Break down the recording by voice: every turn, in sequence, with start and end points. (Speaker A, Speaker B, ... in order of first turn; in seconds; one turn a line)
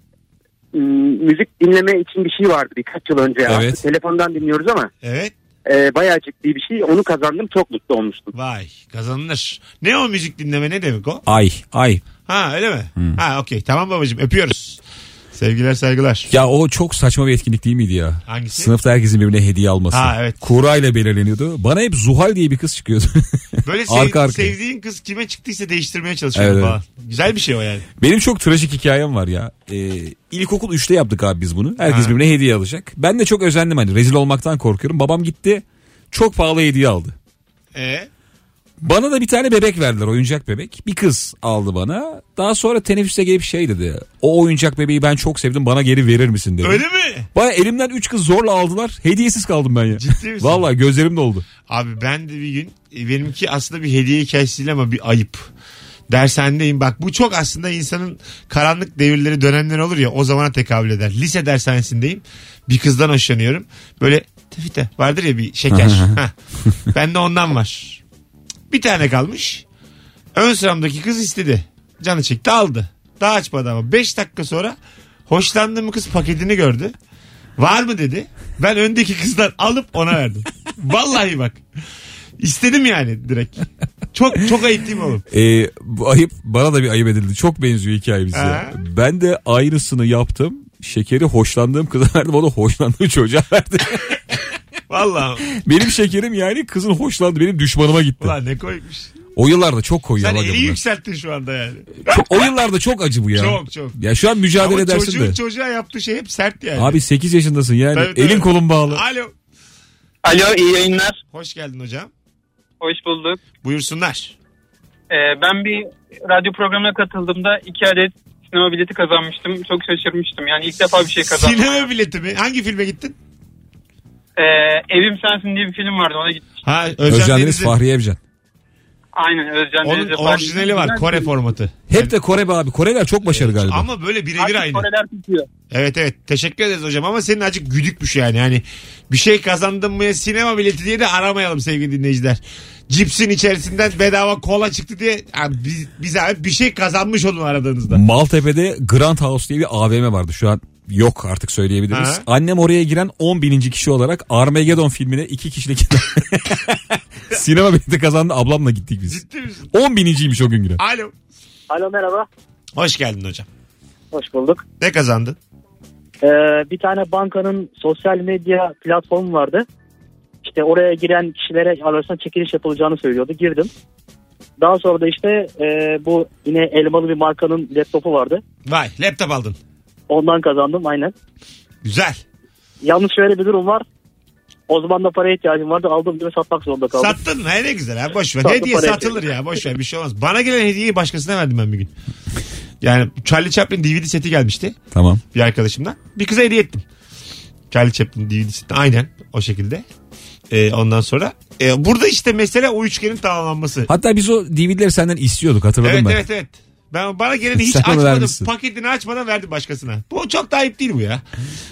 Speaker A: 0.7-4.9
Speaker B: 3.5-3.8
Speaker C: 5.0-5.3
Speaker A: 5.6-8.3
Speaker C: 8.3-11.2
Speaker B: 11.3-12.0
Speaker C: 12.3-14.8
Speaker C: 15.3-16.3
Speaker B: 16.3-24.5
Speaker C: 18.3-18.7
Speaker C: 19.9-20.4
Speaker C: 23.6-27.8
Speaker B: 26.4-26.8
Speaker B: 28.0-37.1
Speaker C: 31.8-32.1
Speaker C: 37.7-38.1
Speaker B: 38.8-46.8
Speaker C: 46.6-47.3
Speaker B: 47.3-51.5
Speaker C: 50.0-50.6
Speaker C: 51.6-55.5
Speaker C: 56.1-66.3
Speaker B: 65.7-66.2
Speaker C: 66.9-68.0
Speaker C: 68.7-69.6
Speaker C: 70.3-74.7
Speaker C: 75.3-76.9
Speaker C: 77.6-81.6
Speaker C: 82.4-85.2
Speaker B: 85.3-94.2
Speaker C: 88.3-88.7
Speaker C: 94.9-95.5
Speaker B: 95.5-98.3
Speaker C: 98.2-99.1
Speaker B: 99.3-100.8
Speaker C: 100.2-102.5
Speaker B: 102.0-105.4
Speaker C: 103.3-104.0
Speaker C: 104.5-107.0
Speaker B: 106.8-109.0
Speaker C: 107.9-109.3
Speaker D: 110.2-111.2
Speaker C: 111.3-112.1
Speaker D: 112.8-113.4
Speaker C: 113.6-114.3
Speaker D: 115.1-121.8
Speaker C: 121.2-123.2
Speaker D: 124.4-126.6
Speaker C: 126.6-127.7
Speaker B: 127.1-128.2
Speaker D: 129.2-131.3
Speaker C: 129.8-132.1
Speaker B: 131.9-133.8
Speaker C: 133.3-134.9
Speaker D: 134.4-135.5
Speaker C: 135.7-148.0
Speaker B: 147.9-159.2
Speaker C: 151.9-152.2
Speaker C: 159.1-159.7
Speaker B: 159.7-160.8
Speaker C: 160.8-161.1
Speaker E: 161.7-162.3
Speaker C: 162.8-163.5
Speaker E: 164.1-164.6
Speaker C: 164.8-165.4
Speaker E: 166.2-169.7
Speaker E: 170.4-173.7
Speaker E: 174.6-178.4
Speaker C: 178.7-179.6
Speaker E: 180.1-181.1
Speaker C: 181.8-182.2
Speaker E: 182.8-183.8
Speaker E: 184.7-187.2
Speaker C: 187.0-191.9
Speaker E: 188.4-189.2
Speaker C: 192.8-194.8
Speaker B: 194.9-195.2
Speaker C: 195.3-196.8
Speaker C: 197.7-199.8
Speaker C: 200.5-203.9
Speaker B: 203.9-206.2
Speaker C: 205.8-211.2
Speaker B: 207.6-208.5